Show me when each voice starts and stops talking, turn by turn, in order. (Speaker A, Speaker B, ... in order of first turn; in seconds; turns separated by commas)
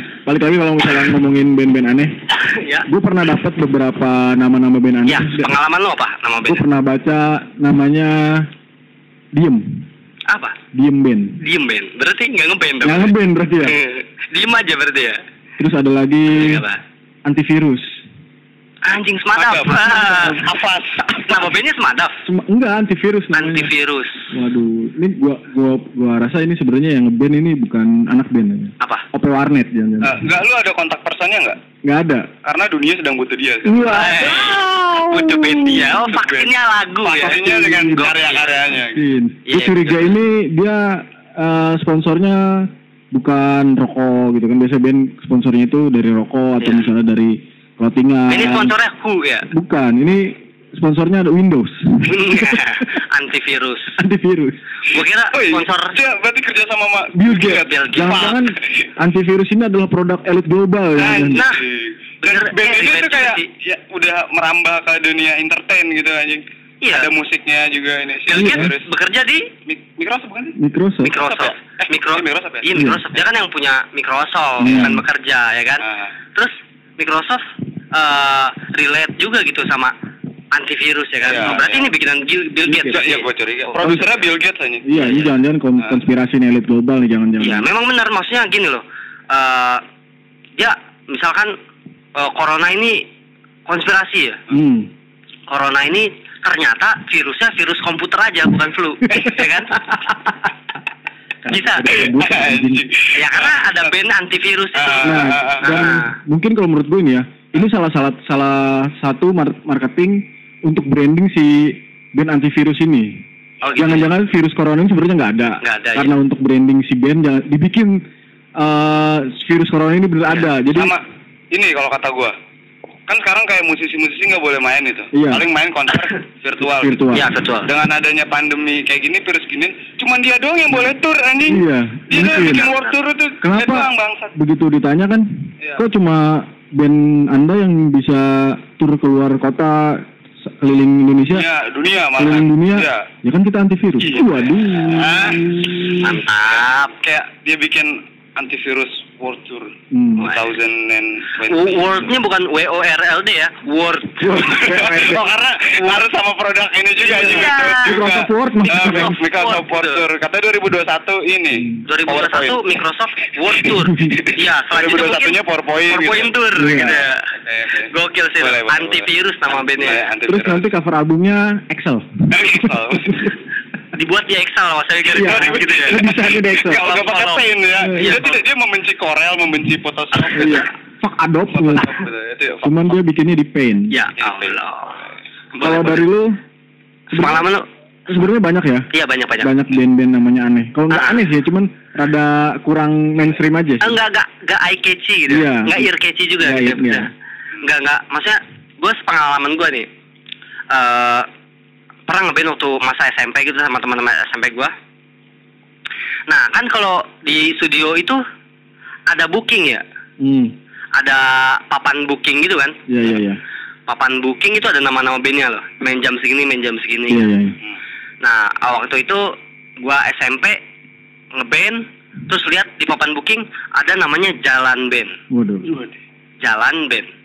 Speaker A: 0.2-2.2, Speaker B: 2.5-2.9, Speaker A: 2.9-5.5, Speaker B: 5.1-6.6, Speaker A: 6.5-8.5, Speaker A: 9.3-9.8, Speaker B: 10.3-10.6, Speaker A: 10.7-11.4, Speaker B: 11.4-13.1, Speaker A: 12.8-13.8, Speaker B: 13.6-15.2, Speaker A: 15.6-16.6, Speaker B: 16.3-16.8, Speaker A: 17.2-18.0, Speaker B: 18.8-20.4, Speaker C: 19.4-21.5, Speaker B: 21.1-22.2, Speaker A: 22.3-23.7, Speaker B: 23.3-24.3, Speaker A: 24.3-30.2, Speaker B: 28.8-29.1, Speaker C: 30.0-31.6, Speaker A: 31.8-32.3, Speaker C: 32.4-34.3, Speaker A: 33.6-35.9, Speaker B: 33.9-37.4, Speaker C: 35.1-39.0, Speaker A: 37.2-38.1, Speaker B: 38.0-38.5, Speaker A: 39.0-48.7, Speaker B: 39.5-40.1, Speaker B: 46.6-46.9, Speaker B: 48.3-49.5, Speaker A: 49.5-52.9, Speaker B: 52.0-54.0, Speaker A: 54.0-54.6, Speaker B: 54.9-56.0, Speaker C: 55.3-58.9, Speaker A: 57.1-61.5, Speaker B: 57.5-58.4, Speaker C: 61.0-68.9, Speaker B: 61.1-61.6, Speaker B: 62.2-63.5, Speaker B: 66.8-67.1, Speaker B: 68.3-69.5, Speaker A: 68.3-68.7, Speaker C: 69.7-70.6, Speaker A: 70.6-71.2, Speaker B: 71.0-79.9, Speaker C: 71.2-72.7, Speaker A: 72.7-73.0, Speaker A: 74.6-75.0, Speaker C: 75.8-76.1, Speaker B: 80.5-83.3, Speaker C: 81.2-81.9, Speaker C: 82.7-85.2, Speaker A: 82.7-83.0, Speaker A: 83.8-84.1, Speaker A: 84.8-87.7, Speaker B: 85.0-85.3, Speaker B: 87.4-89.8, Speaker B: 90.6-91.6, Speaker B: 92.2-93.1, Speaker B: 93.7-94.4, Speaker A: 94.5-94.9, Speaker B: 95.5-100.3, Speaker A: 101.4-102.8, Speaker B: 101.5-102.0, Speaker C: 102.0-104.0, Speaker B: 103.1-106.2, Speaker C: 104.7-105.9, Speaker A: 105.0-113.2, Speaker B: 113.6-114.1, Speaker A: 113.8-118.0, Speaker B: 115.6-116.2, Speaker A: 118.6-121.0, Speaker C: 120.7-122.3, Speaker C: 123.1-127.1, Speaker A: 125.1-125.4, Speaker A: 126.6-127.3, Speaker B: 127.1-127.7, Speaker C: 127.6-134.3, Speaker A: 131.5-132.7, Speaker B: 132.3-132.9, Speaker A: 133.4-141.5, Speaker C: 141.3-143.1, Speaker A: 142.2-146.2, Speaker C: 144.0-145.6, Speaker B: 145.9-146.9, Speaker C: 146.5-152.1, Speaker A: 149.9-150.3, Speaker B: 151.4-154.5, Speaker A: 154.2-155.2, Speaker C: 154.4-162.7, Speaker B: 157.0-158.1, Speaker A: 157.2-159.2, Speaker B: 158.7-160.0, Speaker B: 161.9-167.3, Speaker C: 163.6-170.7, Speaker A: 163.8-164.2, Speaker A: 166.6-167.0, Speaker B: 167.8-170.1, Speaker A: 170.2-173.3, Speaker C: 172.3-173.4, Speaker B: 173.9-178.4, Speaker A: 175.1-176.8, Speaker C: 175.1-180.7, Speaker A: 177.8-178.2, Speaker A: 180.3-182.1, Speaker C: 181.5-182.8, Speaker A: 182.6-183.9, Speaker B: 183.9-185.0, Speaker C: 184.2-184.6, Speaker B: 185.6-186.1, Speaker A: 185.6-186.4, Speaker A: 187.1-187.4, Speaker B: 187.1-187.7, Speaker A: 188.1-188.9, Speaker B: 188.9-189.5, Speaker A: 189.4-194.0, Speaker B: 190.9-191.2, Speaker B: 193.8-197.1, Speaker A: 195.3-197.1, Speaker B: 197.6-199.9, Speaker B: 200.7-201.3, Speaker B: 202.1-204.7, Speaker B: 206.3-208.2, Speaker B: 209.1-209.8, Speaker A: 210.2-210.5, Speaker B: 210.9-212.8, Speaker A: 212.9-213.4, Speaker B: 213.9-217.3, Speaker A: 217.1-217.6, Speaker B: 218.2-220.6, Speaker B: 221.3-225.2, Speaker A: 225.3-225.8, Speaker B: 226.4-227.1